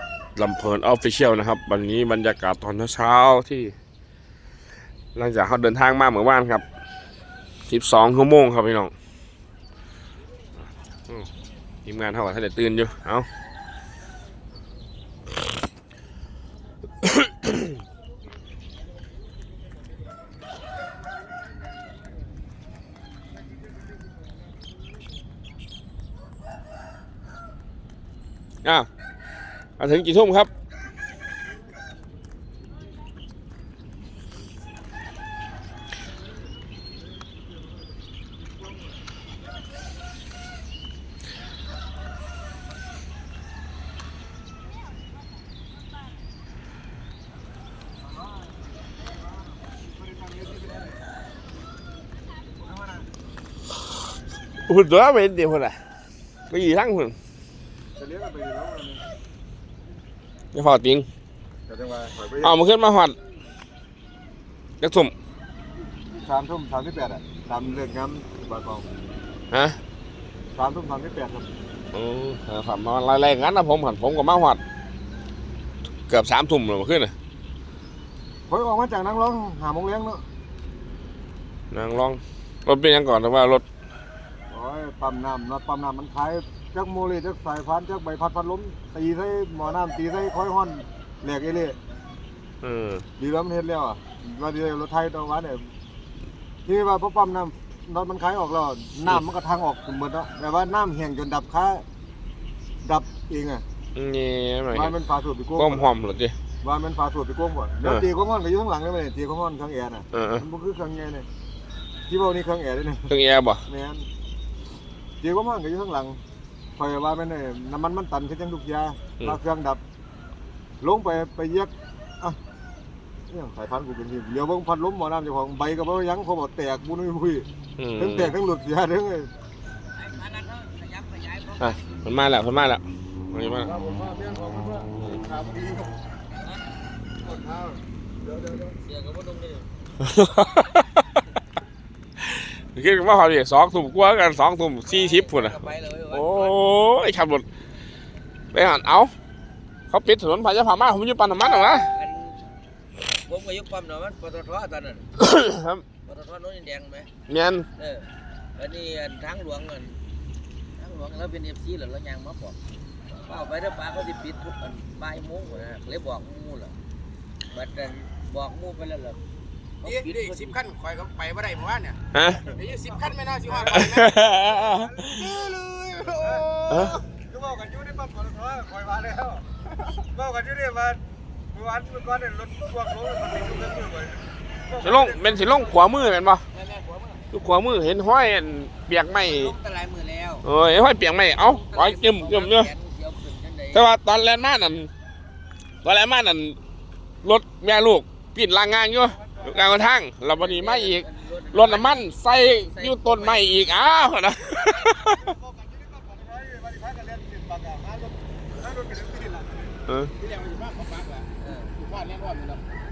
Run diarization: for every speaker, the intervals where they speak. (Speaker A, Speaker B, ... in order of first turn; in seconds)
Speaker A: 0.4-3.7, 5.2-6.6, 7.7-8.9, 11.9-13.3, 29.8-30.5, 54.6-55.8, 56.5-57.1, 60.5-61.1, 62.4-63.1, 64.8-65.1, 69.5-69.8, 71.9-74.6, 76.1-77.1, 81.7-83.6, 92.6-93.0, 104.0-105.0, 105.6-106.3, 110.1-110.4, 113.1-113.6, 127.8-128.3, 131.6-133.7, 140.1-140.9, 142.4-147.4, 148.5-149.1, 149.9-151.9, 155.2-155.8, 157.3-157.7, 172.1-172.5, 173.7-175.3, 176.7-177.0, 184.8-186.4, 187.3-189.5, 190.4-192.7, 193.7-194.9, 195.8-196.6, 197.2-205.3, 209.9-210.1
Speaker B: 48.0-51.0, 52.6-53.1, 58.0-59.0, 61.7-62.6, 66.2-68.9, 70.5-71.5, 78.5-80.2, 84.5-91.8, 93.2-95.7, 96.7-101.8, 102.8-103.6, 104.7-105.9, 106.6-111.3, 112.1-113.1, 113.7-114.1, 115.2-116.2, 116.8-119.8, 120.8-122.4, 123.3-129.3, 133.7-135.9, 137.2-138.7, 173.5-175.3, 176.1-179.5, 180.1-186.1, 199.1-199.9, 204.7-209.8
Speaker C: 129.9-131.8, 136.3-136.6, 138.8-139.7, 140.4-140.9, 144.9-146.6, 151.4-152.4, 153.2-155.1, 156.1-157.1, 157.8-160.0, 160.8-162.6, 163.3-166.7, 167.5-169.2, 169.8-170.6, 186.5-187.2, 189.2-190.4, 191.3-193.8, 200.3-203.7, 211.4-211.7
Speaker D: 169.8-176.9, 210.2-212.6